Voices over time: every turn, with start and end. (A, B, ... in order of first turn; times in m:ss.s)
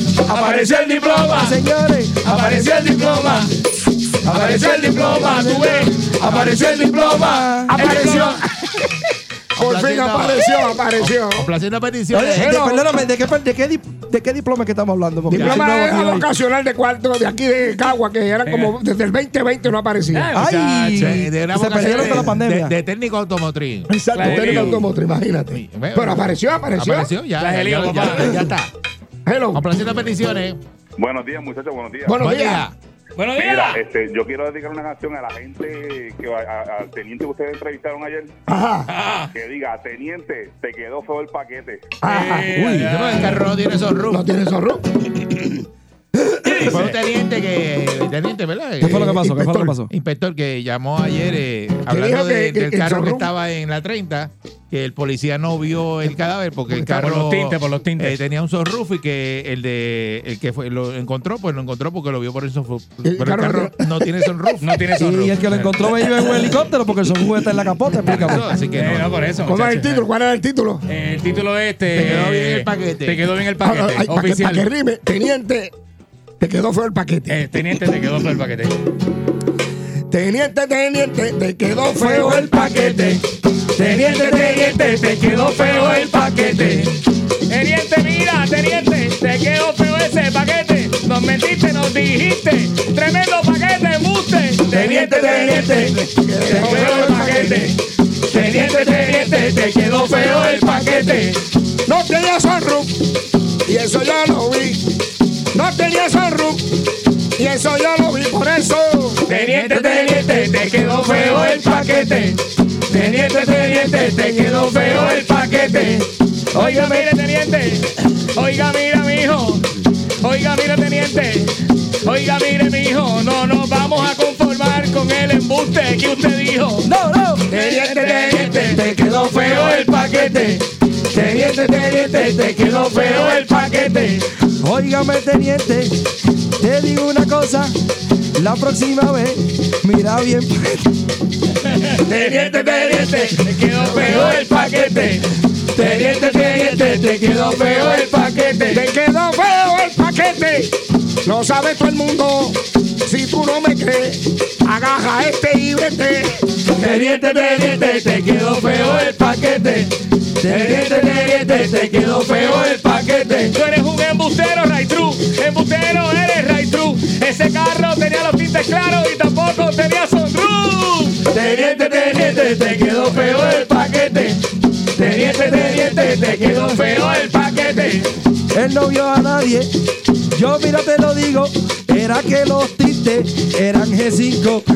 0:00.2-0:01.6 A
0:00.3-0:02.3 B
0:02.2-0:03.6 A
0:04.2-0:08.4 A
0:04.2-0:08.0 B
0:07.7-0:09.0 C
0:09.6-0:12.6 D
0:09.6-0:11.5 C
0:12.1-0:16.3 B
0:12.3-0:13.0 C
0:15.3-0:20.3 C
0:15.3-0:15.6 D
0:18.5-0:18.8 A
0:20.1-0:21.3 A
0:20.3-0:22.7 B
0:21.0-0:24.6 D
0:21.8-0:22.2 A
0:23.9-0:27.1 C
0:24.2-0:24.9 A
0:25.5-0:28.7 D
0:27.4-0:28.3 A
0:28.1-0:28.4 C
0:29.2-0:29.6 C
0:29.5-0:30.6 D
0:31.0-0:32.2 E
0:32.1-0:32.6 C
0:32.2-0:32.7 D
0:33.2-0:33.8 A
0:33.4-0:38.4 E
0:38.5-0:38.9 C
0:38.9-0:39.3 A
0:39.3-0:42.0 E
0:42.0-0:42.7 C
0:42.0-0:43.4 A
0:42.6-0:44.2 D
0:44.1-0:45.6 C
0:46.2-0:46.5 C
0:46.4-0:47.0 A
0:46.7-0:49.1 D
0:48.8-0:49.9 B
0:48.8-0:49.7 C
0:49.9-1:04.7 D
0:51.9-0:53.3 C
0:56.8-0:58.2 A
1:03.1-1:04.3 C
1:04.6-1:06.0 A
1:05.0-1:08.4 B
1:08.1-1:09.1 D
1:08.8-1:09.9 A
1:09.4-1:10.8 C
1:10.9-1:14.7 A
1:11.9-1:13.2 D
1:13.6-1:15.7 C
1:16.4-1:17.4 C
1:17.3-1:18.8 A
1:20.1-1:22.5 C
1:22.0-1:23.0 B
1:22.3-1:23.2 A
1:23.8-1:24.6 B
1:23.8-1:27.0 A
1:27.5-1:41.4 A
1:34.7-1:36.0 B
1:35.0-1:37.7 C
1:36.5-1:36.9 B
1:41.9-1:43.0 C
1:43.6-1:44.9 C
1:45.5-1:46.7 C
1:47.4-1:50.3 C
1:49.3-1:59.7 A
1:51.1-1:52.1 B
1:53.2-1:54.8 B
1:56.5-1:57.1 B
2:00.2-2:06.9 A
2:06.8-2:07.5 B
2:07.5-2:14.2 A
2:07.5-2:08.7 C
2:08.7-2:09.6 B
2:14.6-2:16.0 B
2:16.6-2:17.8 B
2:18.4-2:20.9 B
2:21.6-2:28.8 A
2:22.1-2:24.6 C
2:28.7-2:36.4 C
2:36.7-2:54.4 A
2:40.4-2:41.9 B
2:55.0-2:58.1 A
2:55.0-2:55.8 B
2:58.5-2:59.7 B
3:00.3-3:04.7 B